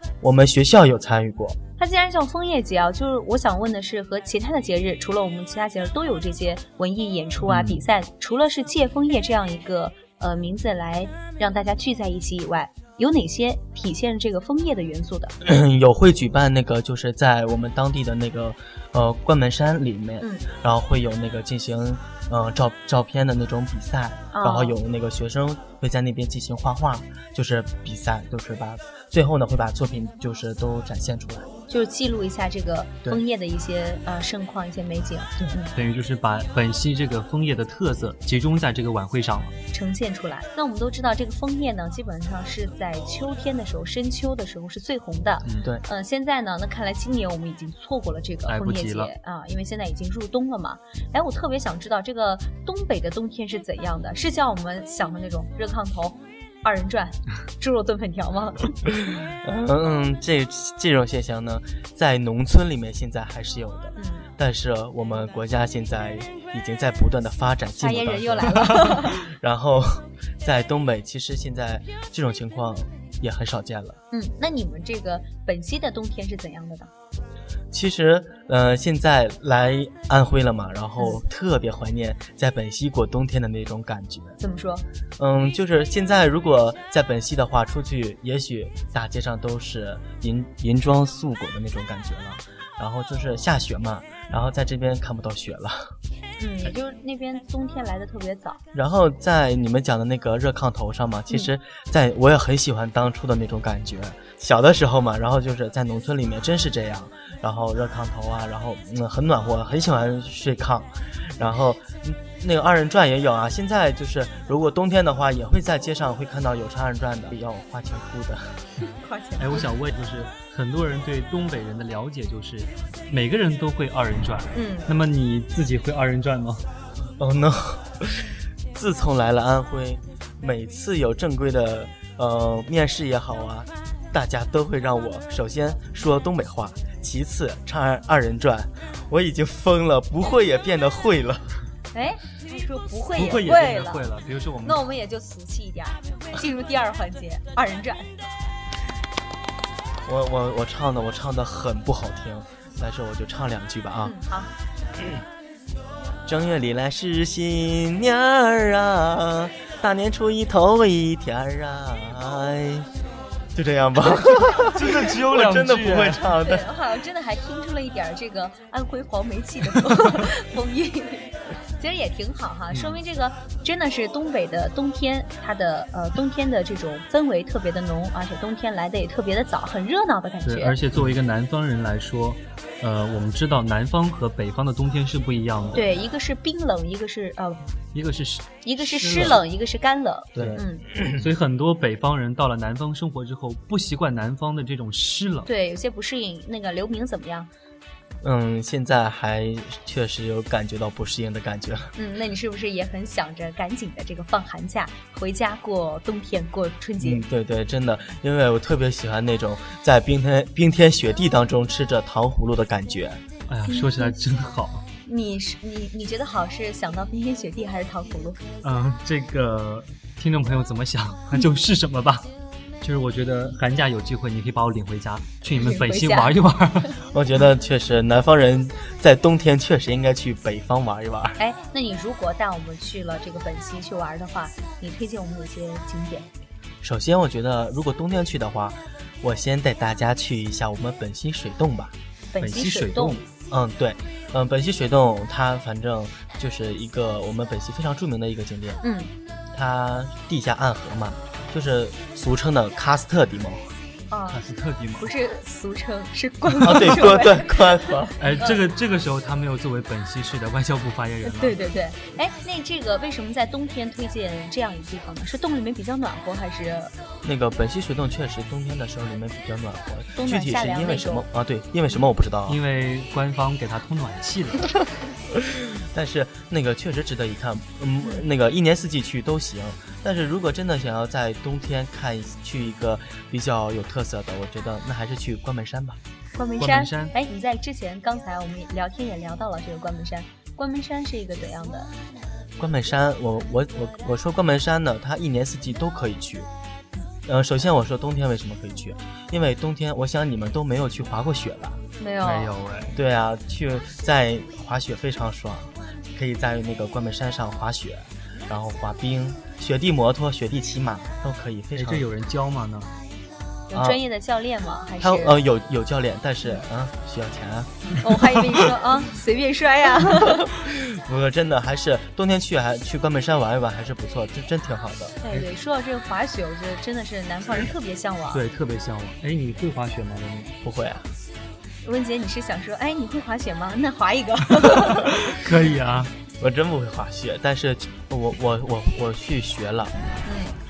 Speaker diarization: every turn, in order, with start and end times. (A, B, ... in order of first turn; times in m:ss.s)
0:00.2-0:01.6 A
0:01.8-0:15.3 B
0:07.4-0:07.9 C
0:15.4-0:31.5 A
0:24.3-0:24.8 B
0:31.7-0:35.7 B
0:35.7-0:39.6 C
0:39.7-0:58.8 B
0:45.4-0:45.7 C
0:48.5-0:49.1 C
0:59.1-1:14.0 A
1:04.0-1:04.2 B
1:07.8-1:09.2 B
1:14.1-1:16.9 B
1:17.7-1:24.4 A
1:24.4-1:24.8 B
1:25.2-1:35.9 A
1:36.4-1:38.6 B
1:38.7-1:58.6 A
1:58.8-1:59.6 B
1:59.4-2:06.6 C
2:04.5-2:04.9 B
2:07.2-2:21.6 A
2:21.9-2:24.1 B
2:23.1-2:24.8 C
2:24.6-2:28.2 B
2:30.0-2:34.1 A
2:34.0-2:34.5 B
2:35.0-2:35.2 A
2:36.2-2:42.9 A
2:43.5-2:46.6 A
2:44.7-2:46.2 C
2:46.4-3:00.8 B
2:52.7-2:53.0 C
3:00.4-3:05.8 C
3:05.7-3:07.6 B
3:07.9-3:08.6 C
3:08.6-3:10.8 B
3:09.0-3:09.4 A
3:10.3-3:11.3 A
3:11.1-3:15.5 C
3:15.4-3:17.5 B
3:18.2-3:21.9 A
3:21.9-3:27.2 B
3:27.0-3:33.2 A
3:33.5-3:34.8 C
3:33.7-3:34.2 B
3:35.0-3:38.4 B
3:38.6-3:42.3 C
3:42.8-3:47.0 C
3:45.5-3:46.4 B
3:47.1-3:51.4 A
3:51.4-3:56.3 B
3:56.8-4:01.9 A
4:02.3-4:03.2 B
4:02.4-4:03.2 C
4:03.5-4:08.8 A
4:08.8-4:09.1 B
4:09.5-4:13.7 A
4:14.1-4:14.4 B
4:14.3-4:15.1 C
4:15.0-4:18.6 B
4:16.6-4:18.2 A
4:18.2-4:21.6 C
4:21.2-4:26.9 B
4:27.2-4:32.6 A
4:30.2-4:31.2 B
4:32.5-4:34.7 C
4:35.4-4:46.0 A
4:46.4-4:51.9 B
4:46.6-4:47.1 C
4:52.6-4:56.5 A
4:57.2-5:01.8 A
5:02.0-5:02.5 B
5:02.2-5:03.0 C
5:02.9-5:12.1 A
5:11.7-5:12.9 C
5:13.7-5:15.4 B
5:13.7-5:14.0 A
5:15.0-5:17.9 A
5:18.0-5:20.5 B
5:20.1-5:25.2 A
5:25.2-5:28.4 B
5:28.3-5:30.5 C
5:30.6-5:31.1 A
5:31.8-5:35.5 B
5:34.8-5:36.1 C
5:36.4-5:39.9 A
5:40.2-5:40.5 B